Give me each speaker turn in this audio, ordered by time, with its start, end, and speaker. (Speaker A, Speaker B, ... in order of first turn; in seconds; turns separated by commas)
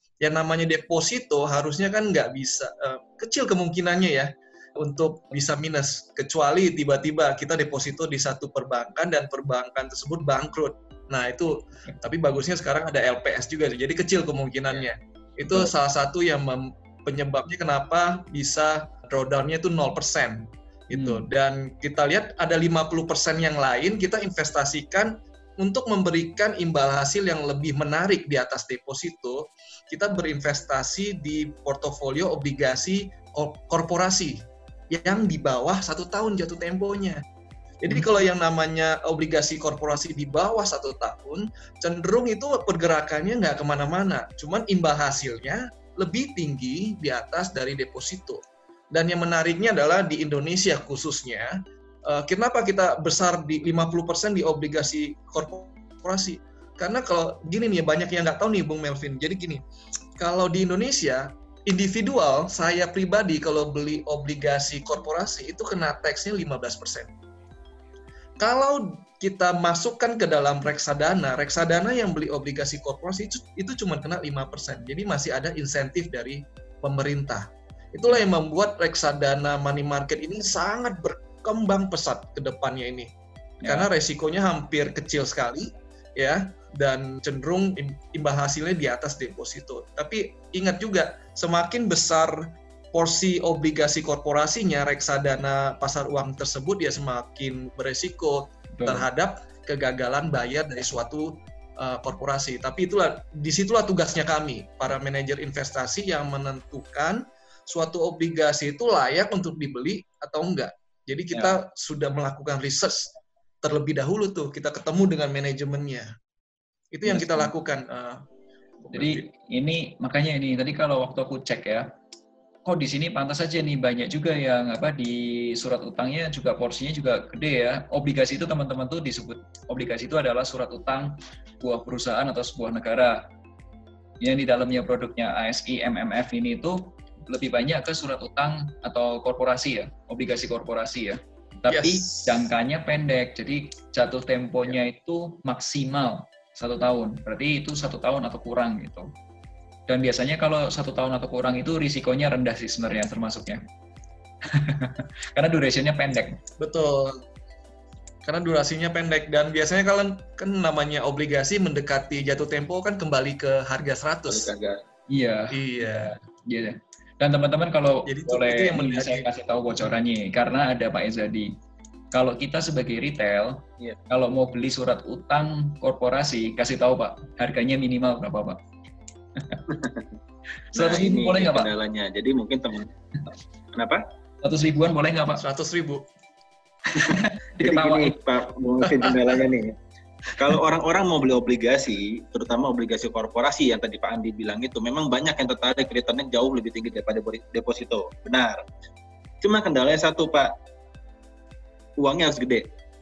Speaker A: 0.2-37.2, Speaker B: 20.9-21.2, Speaker A: 37.8-59.6, Speaker A: 60.2-67.1, Speaker A: 68.4-83.1, Speaker B: 83.6-83.9, Speaker A: 83.6-92.4, Speaker A: 92.9-116.1, Speaker B: 98.8-99.0, Speaker B: 111.3-111.6, Speaker A: 116.9-118.2, Speaker B: 117.1-117.5, Speaker A: 118.8-119.3, Speaker B: 118.9-121.9, Speaker B: 122.7-133.2, Speaker B: 134.2-149.1, Speaker A: 141.7-142.3, Speaker B: 149.9-153.6, Speaker B: 154.5-156.4, Speaker A: 156.6-157.2, Speaker A: 158.2-164.5, Speaker C: 164.3-164.8, Speaker B: 165.1-171.5, Speaker A: 165.5-166.2, Speaker A: 168.1-169.3, Speaker B: 172.1-178.6, Speaker C: 179.7-180.1, Speaker B: 180.7-181.7, Speaker C: 180.8-182.9, Speaker C: 183.8-184.0, Speaker B: 184.4-185.4, Speaker A: 185.4-186.1, Speaker B: 186.9-188.2, Speaker C: 187.0-189.8, Speaker C: 190.4-198.6, Speaker C: 199.4-200.5, Speaker C: 202.0-202.7